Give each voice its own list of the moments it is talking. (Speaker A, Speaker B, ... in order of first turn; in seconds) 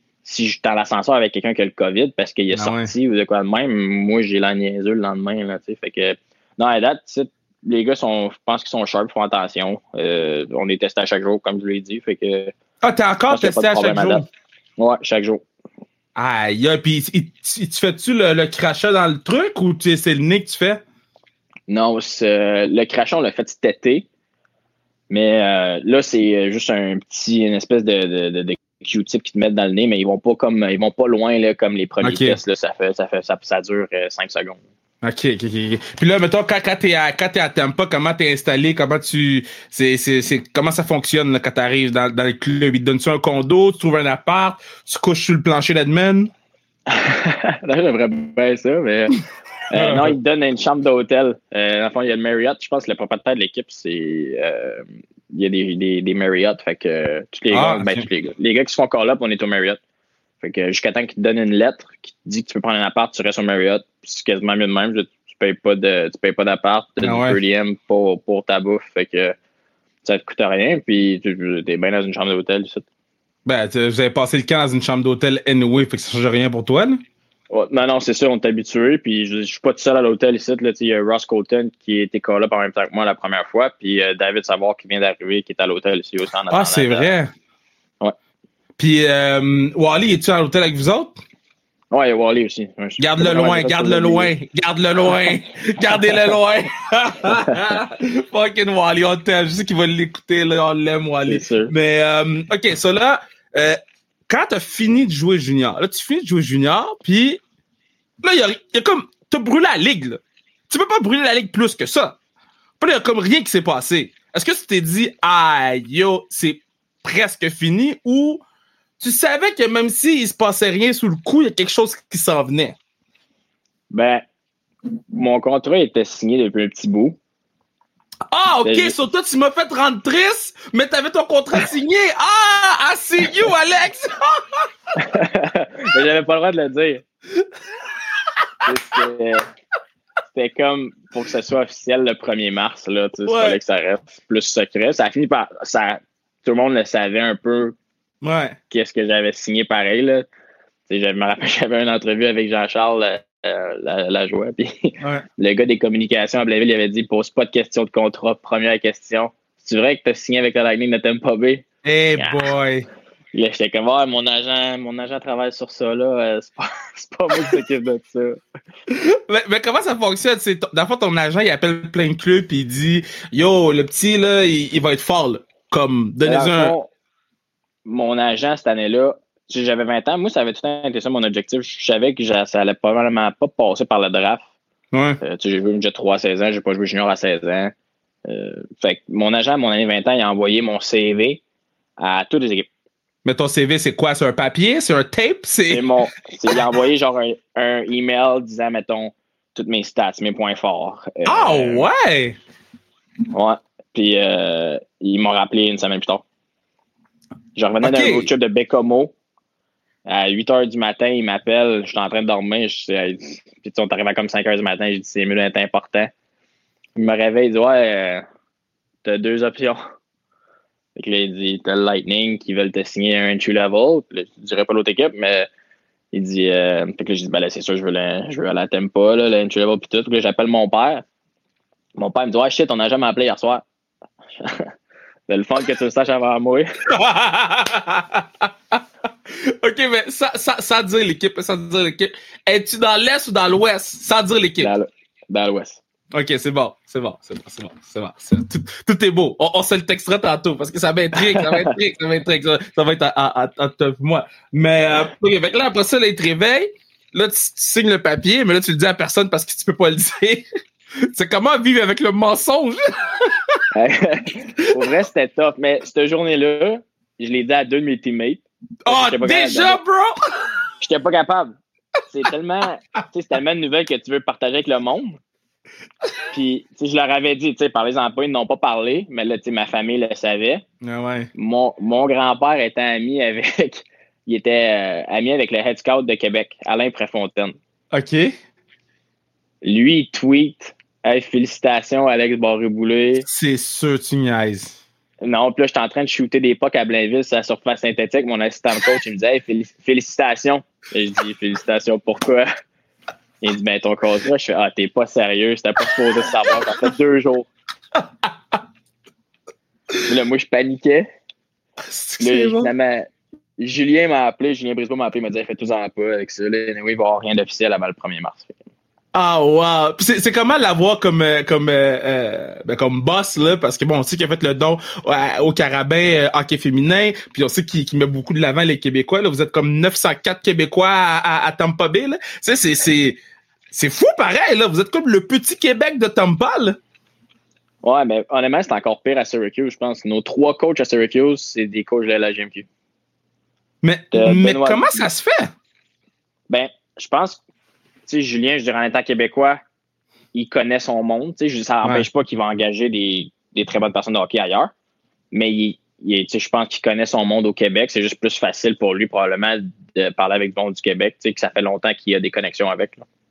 Speaker A: 0.2-12.5, 13.3-14.2, 14.8-15.4, 21.7-24.1, 25.1-34.6, 46.9-49.2, 49.7-59.8, 60.4-69.3, 70.0-72.8, 77.5-87.1, 91.9-94.3, 97.3-97.7, 101.3-101.7, 123.9-124.2, 125.1-127.2, 128.6-128.9, 134.9-137.0, 138.6-139.5, 140.3-147.7, 148.7-150.2, 150.9-161.6, 162.2-162.5, 163.3-168.4, 176.2-176.9, 177.8-184.4, 185.2-187.7, 188.3-191.4, 192.0-192.7, 195.7-201.9, 203.3-206.2, 207.5-209.1, 210.1-216.1, 217.0-218.2, 219.0-219.8, 220.9-225.5, 226.1-231.0, 232.0-233.6, 234.4-234.7, 235.3-236.7, 244.6-245.8, 251.1-251.7, 263.7-269.8, 270.8-275.2, 276.3-280.6, 281.3-287.6, 289.6-293.2, 295.2-302.5, 303.4-307.5, 310.0-311.1, 312.2-318.6, 337.8-342.7, 344.1-345.0, 346.5-347.4, 348.1-349.6, 350.3-354.7, 355.3-363.1
Speaker B: 2.5-2.9, 12.8-14.2, 16.1-20.8, 32.0-32.4, 35.0-46.3, 49.8-50.1, 57.5-58.1, 67.0-67.4, 73.5-77.0, 86.5-87.3, 88.8-91.2, 93.0-107.4, 108.2-112.2, 112.8-118.4, 119.0-122.8, 128.3-134.7, 137.4-139.1, 143.2-143.6, 148.2-148.6, 161.8-162.9, 168.9-176.7, 184.9-185.2, 193.2-195.9, 196.5-196.7, 201.2-202.4, 207.8-208.3, 236.9-244.7, 246.1-260.4, 261.1-263.6, 268.9-270.1, 280.8-281.3, 287.9-288.3, 293.2-294.8, 307.9-308.6, 311.8-312.7, 319.1-333.2, 333.7-336.8, 343.8-345.5